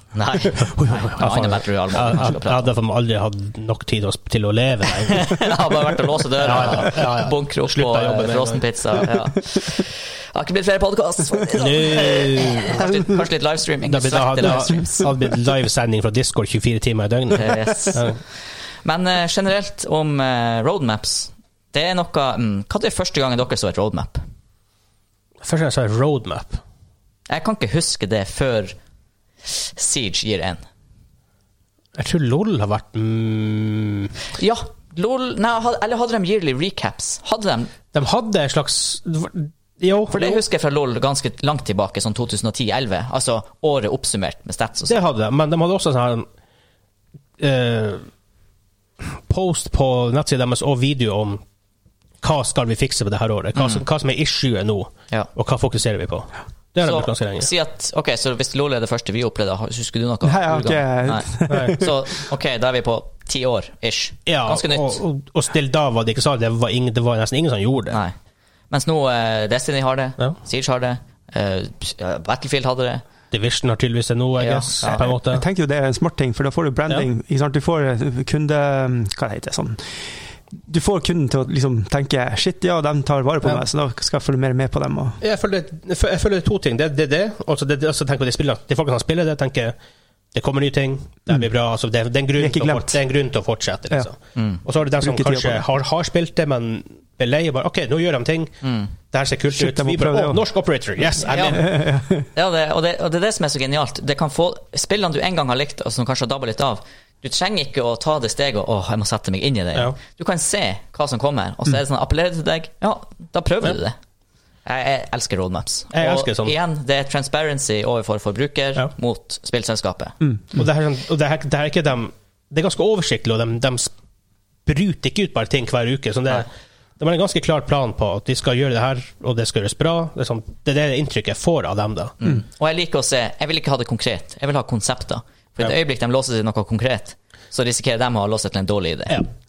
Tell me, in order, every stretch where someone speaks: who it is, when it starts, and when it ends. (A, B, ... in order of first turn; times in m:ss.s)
0:00.1-0:02.7 A
0:00.4-0:05.5 B
0:05.0-0:15.1 A
0:06.4-0:09.0 B
0:11.6-0:13.0 B
0:13.9-0:18.2 B
0:17.3-0:18.2 A
0:18.8-0:24.2 A
0:25.4-0:26.6 B
0:27.3-0:28.8 A
0:29.4-0:30.6 A
0:32.0-0:34.1 B
0:34.3-0:37.7 A
0:37.9-0:40.4 B
0:40.1-0:45.0 A
0:44.9-0:46.3 B
0:47.4-0:48.0 B
0:49.1-0:51.4 B
0:52.2-0:57.5 B
0:53.6-0:53.8 A
0:56.8-1:05.0 A
1:00.2-1:02.0 C
1:01.5-1:01.8 B
1:04.3-1:08.0 B
1:08.7-1:13.0 A
1:13.3-1:15.4 B
1:14.4-1:15.1 A
1:14.9-1:19.9 C
1:20.6-1:25.2 C
1:25.2-1:29.7 B
1:30.3-1:41.7 B
1:32.4-1:33.0 C
1:34.4-1:34.6 A
1:35.0-1:35.6 C
1:38.6-1:38.9 A
1:39.5-1:40.4 C
1:41.3-1:41.7 A
1:41.4-1:42.3 C
1:42.3-1:54.0 A
1:54.6-2:00.2 A
1:55.9-1:56.6 B
2:00.5-2:03.9 B
2:04.6-2:06.5 B
2:07.0-2:12.2 B
2:12.2-2:19.2 A